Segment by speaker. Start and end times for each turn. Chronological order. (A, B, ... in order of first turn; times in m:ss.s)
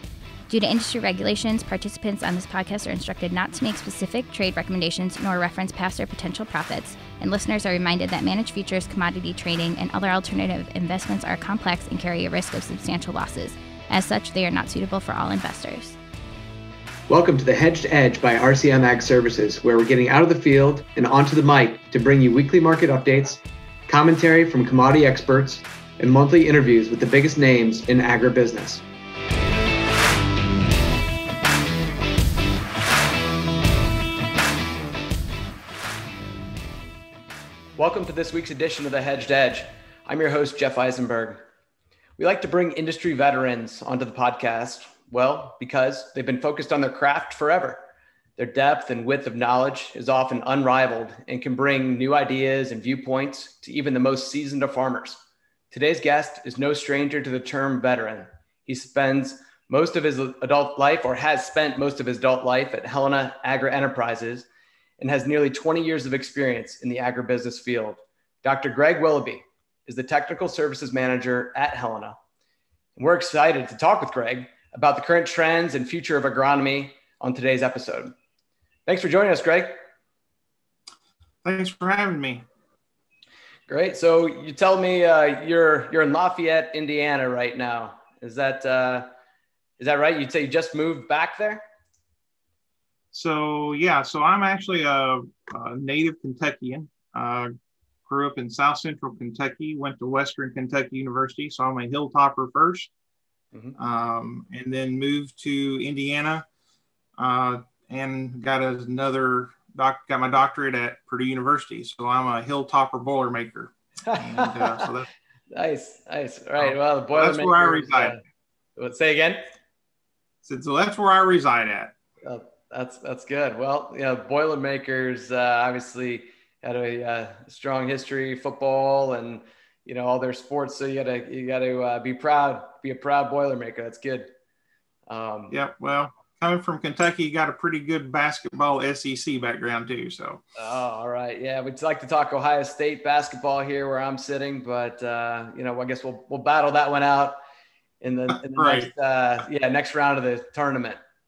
0:00.5-0:16.0 A
0:17.1-0:28.8 B
0:37.8-0:41.4 B
0:42.2-0:47.8 B
0:48.4-1:04.5 B
1:05.0-1:12.2 B
1:13.0-1:18.2 B
1:18.9-1:19.8 B
1:21.4-1:22.4 C
1:23.7-1:29.1 B
1:29.8-1:31.6 B
1:33.1-1:37.5 C
1:38.1-1:42.9 C
1:43.8-1:46.5 C
1:47.2-1:55.1 C
1:54.0-1:54.9 B
1:55.5-1:58.2 B
1:56.6-1:58.2 C
1:58.8-1:59.5 B
2:00.4-2:01.9 C
2:02.2-2:14.3 B
2:15.1-2:15.6 B
2:15.5-2:20.4 C
2:20.6-2:27.4 B
2:28.0-2:31.0 B
2:28.4-2:28.9 C